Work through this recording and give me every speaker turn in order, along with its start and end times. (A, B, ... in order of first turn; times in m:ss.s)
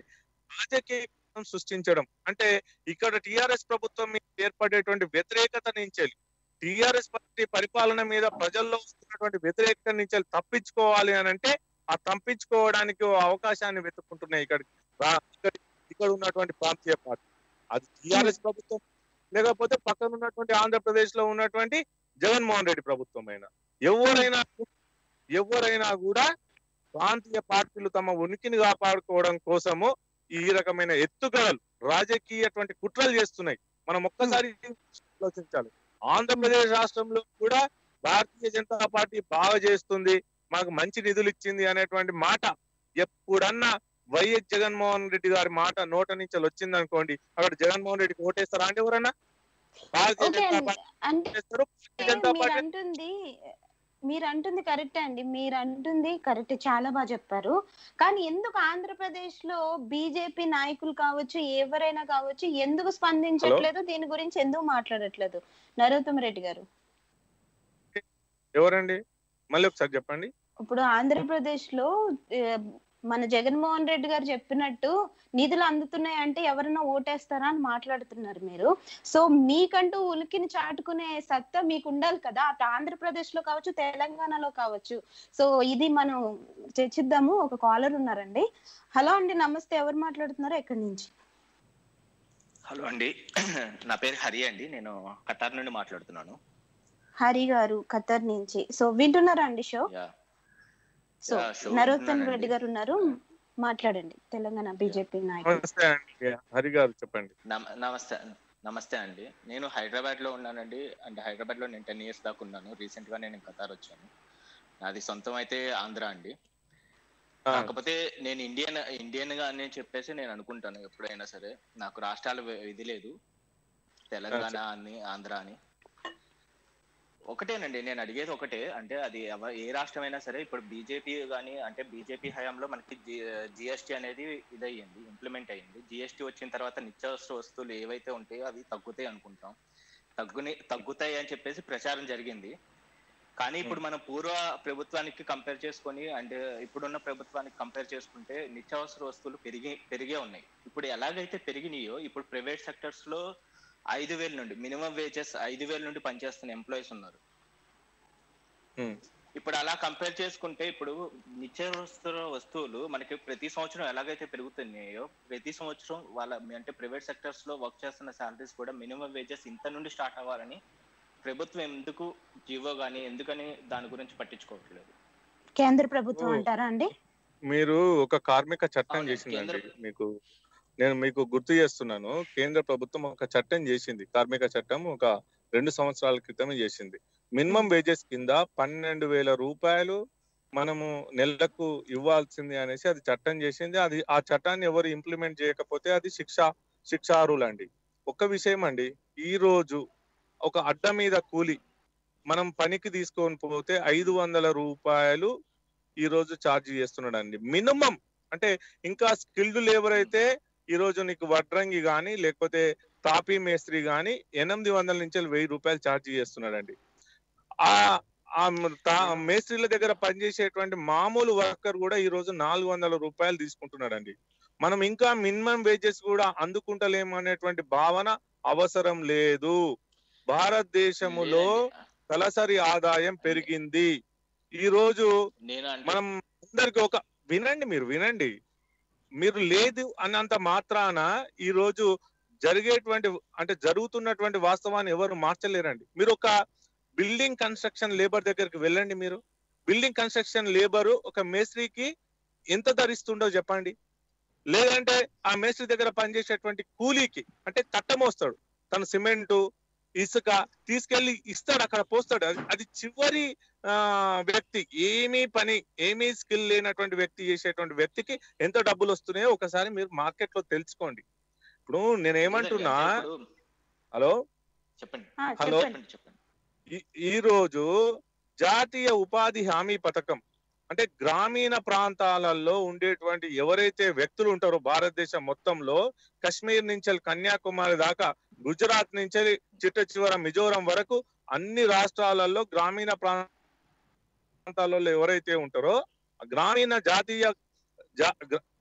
0:00.6-0:17.2 A
0:17.7-0:18.8 A
0:19.3-0:24.7 A
0:25.4-0:26.2 A
0:27.0-0:42.5 A
0:43.0-0:49.1 A
0:49.9-0:50.8 A
0:50.2-0:51.3 B
0:51.3-0:52.6 A
0:52.0-0:53.1 B
0:54.1-1:06.6 B
1:08.6-1:09.0 A
1:09.5-1:10.3 A
1:10.6-1:11.9 B
1:13.1-1:26.2 B
1:26.8-1:28.4 B
1:29.0-1:31.1 B
1:32.7-1:33.1 C
1:33.9-1:36.4 C
1:37.2-1:39.8 B
1:41.3-1:45.6 B
1:41.3-1:42.5 C
1:45.5-1:47.3 A
1:47.5-1:54.1 C
1:54.8-1:56.3 C
1:57.5-2:03.1 C
2:04.1-2:05.6 C
2:04.3-2:04.6 A
2:07.3-2:19.6 C
2:20.2-2:22.5 C
2:23.4-2:33.2 C
2:33.9-2:37.2 C
2:39.4-2:50.6 C
2:51.2-2:54.9 C
2:55.6-2:56.9 B
2:56.2-2:56.4 A
2:57.5-3:00.0 A
2:59.0-2:59.6 C
3:00.8-3:10.0 A
3:10.6-3:19.8 A
3:20.5-3:21.6 A
3:22.3-3:25.3 A
3:26.0-3:36.8 A
3:38.4-3:49.6 A
3:50.3-3:51.5 A
3:51.0-3:51.8 C
3:52.1-3:53.9 A
3:53.2-3:53.5 C
3:54.6-3:55.1 A
3:55.5-3:56.0 C
3:55.9-3:58.3 A
3:59.2-4:01.9 A
4:02.4-4:06.3 A
4:07.0-4:11.9 A
4:12.5-4:13.7 A
4:14.5-4:19.4 A
4:20.0-4:31.0 A
4:31.7-4:32.9 A
4:32.2-4:33.2 C
4:34.8-4:36.2 C
4:35.2-4:35.8 B
4:36.8-4:37.7 A
4:38.4-4:40.2 A
4:40.7-4:53.3 A
4:54.5-4:55.8 A
4:56.3-4:57.3 A
4:58.0-4:58.4 A